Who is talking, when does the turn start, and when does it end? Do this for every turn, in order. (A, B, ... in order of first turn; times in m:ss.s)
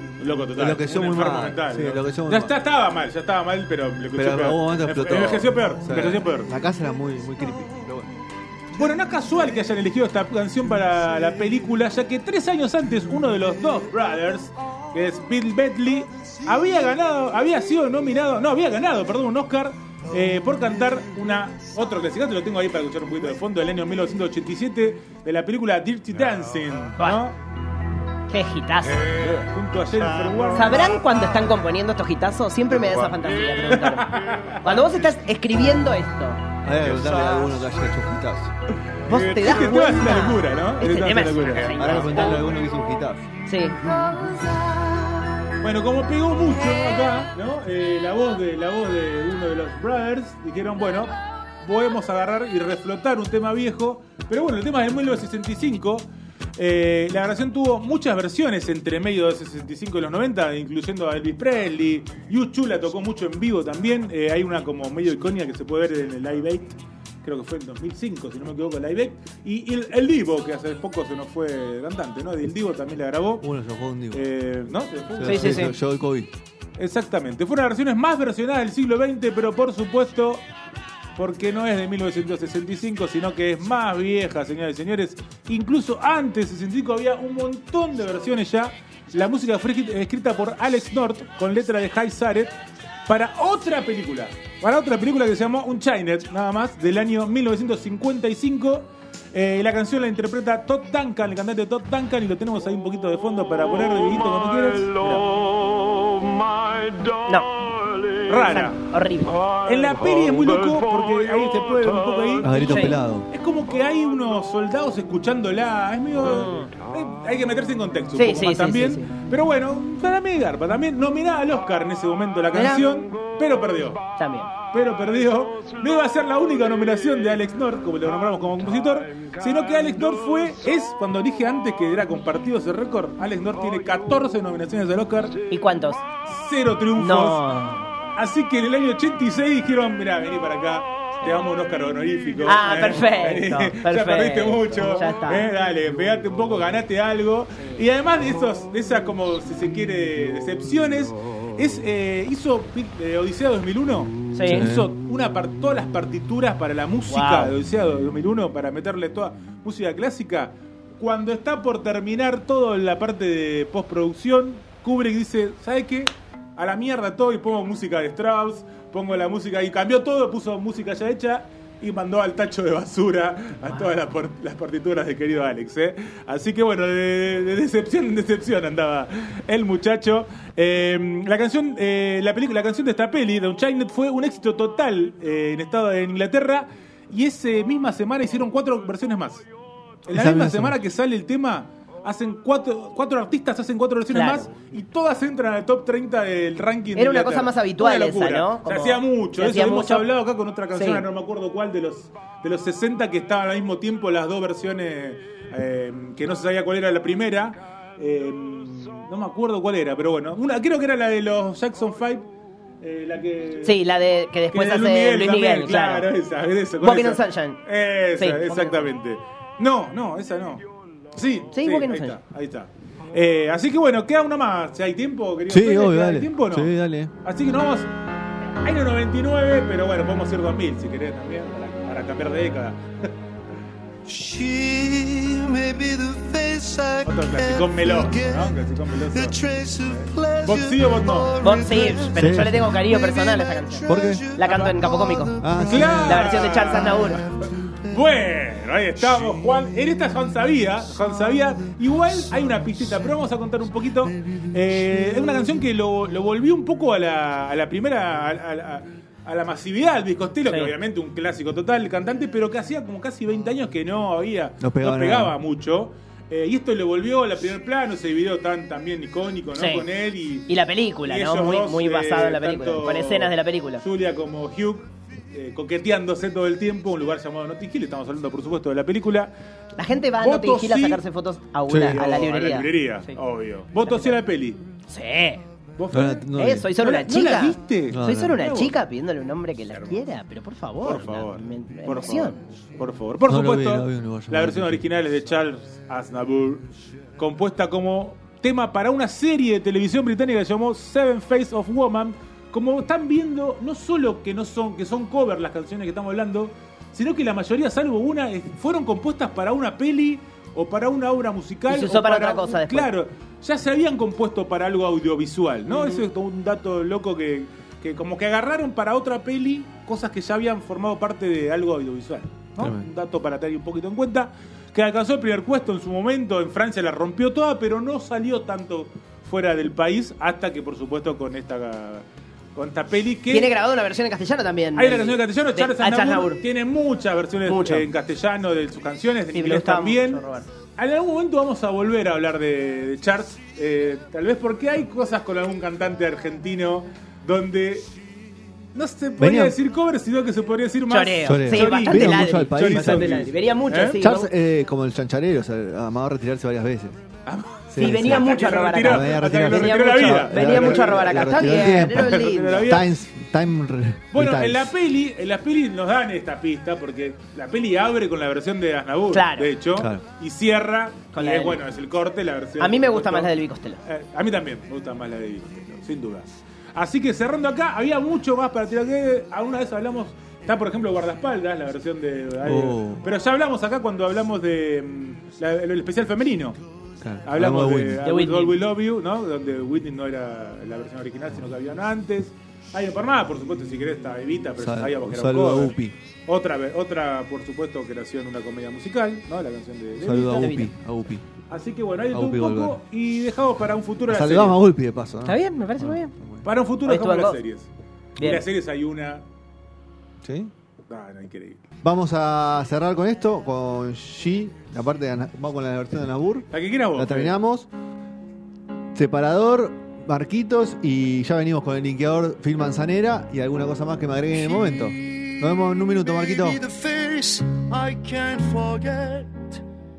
0:00.2-0:06.5 A
0:00.6-0:02.5 B
0:04.1-0:08.1 B
0:08.7-0:27.4 A
0:27.0-0:27.2 C
0:28.3-0:29.3 C
0:29.2-0:30.9 A
0:30.5-0:36.4 C
0:33.7-0:34.8 A
0:36.6-0:38.5 B
0:37.0-0:37.6 D
0:39.0-0:42.3 A
0:39.1-0:42.4 C
0:41.8-0:43.2 B
0:43.5-0:43.8 C
0:45.6-1:13.5 A
1:13.4-1:14.3 B
1:14.1-1:15.8 A
1:15.2-1:16.3 B
1:15.2-1:15.7 C
1:16.8-1:20.4 A
1:21.2-1:32.5 A
1:33.1-1:45.3 A
1:48.3-1:48.8 A
1:48.3-1:49.4 C
1:49.6-2:04.0 A
1:52.4-1:53.3 B
1:52.6-1:53.0 C
1:58.2-1:59.1 C
2:02.5-2:02.8 C
2:04.2-2:04.5 C
2:04.7-2:15.4 A
2:15.5-2:16.0 C
2:16.3-2:17.4 A
2:17.0-2:17.8 C
2:18.2-3:09.4 A
2:22.4-2:25.5 C
2:34.3-2:34.6 C
2:34.5-2:34.9 B
2:37.1-2:37.5 C
3:10.1-3:32.2 A
3:10.1-3:10.8 B
3:14.1-3:14.5 C
3:16.9-3:20.0 C
3:20.7-3:21.0 C
3:32.8-3:33.8 A
3:33.6-3:36.1 C
3:34.5-3:40.6 A
3:36.8-3:37.6 C
3:38.2-3:38.9 C
3:41.1-3:47.9 A
3:41.5-3:42.2 C
3:45.5-3:47.1 B
3:48.6-3:53.1 A
3:54.1-3:58.5 D
3:57.0-4:01.4 A
3:59.1-4:07.9 D
4:01.4-4:05.3 C
4:02.1-4:02.8 B
4:03.8-4:04.4 B
4:05.4-4:06.3 B
4:05.6-4:30.5 A
4:06.0-4:07.2 C
4:20.5-4:20.7 C
4:24.6-4:25.4 B
4:29.6-4:29.8 C
4:30.5-4:33.8 C
4:31.0-4:39.3 A
4:39.8-4:43.2 C
4:40.2-4:41.0 A
4:41.7-4:42.0 B
4:41.9-4:44.6 A
4:43.8-4:44.2 C
4:44.9-4:45.4 C
4:45.8-4:48.8 A
4:45.9-4:46.7 B
4:46.4-4:52.4 C
4:47.9-4:48.5 B
4:50.8-4:56.6 A
4:53.3-4:54.9 B
4:57.2-5:33.5 A
5:11.7-5:12.9 C
5:22.6-5:22.9 B
5:33.3-5:36.4 C
5:34.8-5:40.2 A
5:37.4-5:37.9 C
5:39.3-5:40.4 C
5:40.8-5:47.9 A
5:48.7-5:54.0 A
5:49.2-5:49.6 B
5:50.9-5:54.3 C
5:51.2-5:53.2 B
5:54.0-5:57.0 B
5:57.2-6:02.9 A
5:57.7-6:02.7 C
5:57.7-6:04.7 B
6:04.1-6:13.3 A
6:09.1-6:09.5 C
6:09.7-6:10.0 B
6:11.1-6:11.6 C
6:12.6-6:13.8 C
6:13.8-6:26.6 A
6:22.4-6:23.0 B
6:27.0-6:28.0 B
6:27.2-6:35.8 A
6:28.0-6:28.6 C
6:34.6-6:35.9 B
6:36.3-6:40.6 A
6:40.0-6:41.2 B
6:40.4-6:40.7 C
6:41.5-6:44.6 A
6:42.1-6:42.8 B
6:44.1-6:46.4 B
6:45.2-6:46.1 C
6:46.4-6:49.2 A
6:46.8-6:47.4 C
6:48.2-6:48.4 C
6:50.2-6:50.5 B
6:50.9-6:51.6 A
6:51.8-6:57.7 B
6:56.5-6:57.3 A
6:58.9-7:06.6 B
7:04.3-7:05.4 D
7:06.0-7:09.6 D